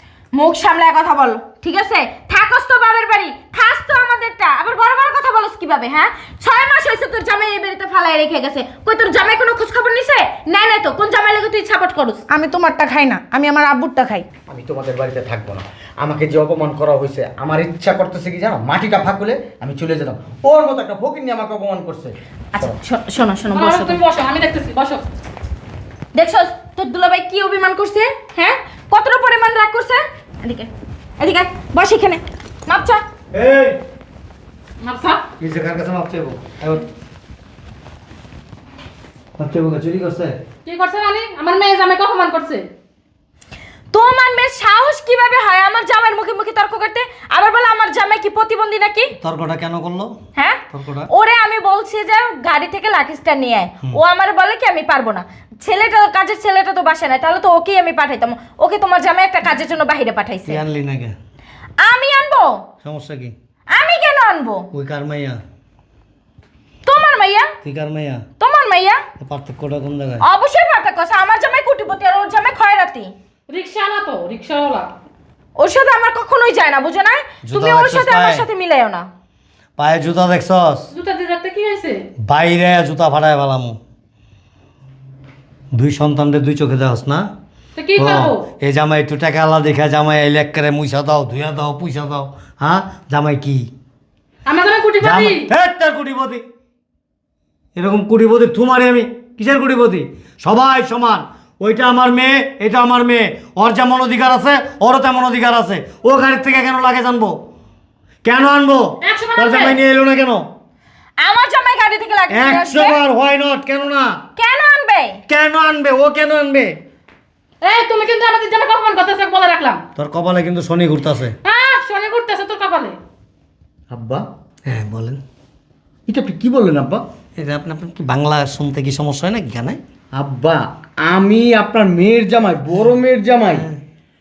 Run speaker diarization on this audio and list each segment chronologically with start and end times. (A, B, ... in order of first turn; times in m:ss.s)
0:00.3-0:12.2 A
0:12.3-0:14.3 B
0:14.5-0:22.8 C
0:22.5-0:24.0 A
0:23.5-0:25.0 D
0:26.2-0:33.0 A
0:33.3-0:33.8 E
0:34.8-0:35.2 D
0:35.4-0:36.8 E
0:39.4-0:40.3 E
0:40.7-0:42.6 D
0:43.9-0:49.1 A
0:49.2-0:50.1 E
0:50.4-0:50.6 A
0:50.7-0:51.1 E
0:51.1-1:00.6 A
1:00.5-1:01.2 E
1:01.8-1:02.6 A
1:02.8-1:03.3 E
1:03.7-1:04.7 A
1:04.7-1:05.4 E
1:06.9-1:07.5 A
1:07.6-1:08.2 E
1:08.4-1:09.0 A
1:09.2-1:10.2 E
1:10.2-1:13.1 A
1:13.5-1:14.9 D
1:15.6-1:19.1 A
1:17.4-1:18.4 E
1:19.8-1:20.9 E
1:20.9-1:22.0 D
1:22.3-1:23.8 E
1:25.7-1:27.3 E
1:27.8-1:28.4 D
1:28.0-1:33.7 E
1:34.5-1:35.4 D
1:35.0-1:36.4 E
1:37.8-1:47.4 E
1:48.2-1:50.4 E
1:49.0-1:49.8 D
1:51.2-1:53.0 A
1:52.3-1:54.2 E
1:54.4-1:55.2 A
1:55.3-1:56.8 E
1:57.6-1:59.8 D
2:00.0-2:01.4 E
2:01.4-2:03.0 D
2:03.9-2:04.2 C
2:04.7-2:05.2 E
2:06.1-2:07.0 C
2:07.4-2:09.8 E
2:10.2-2:13.7 C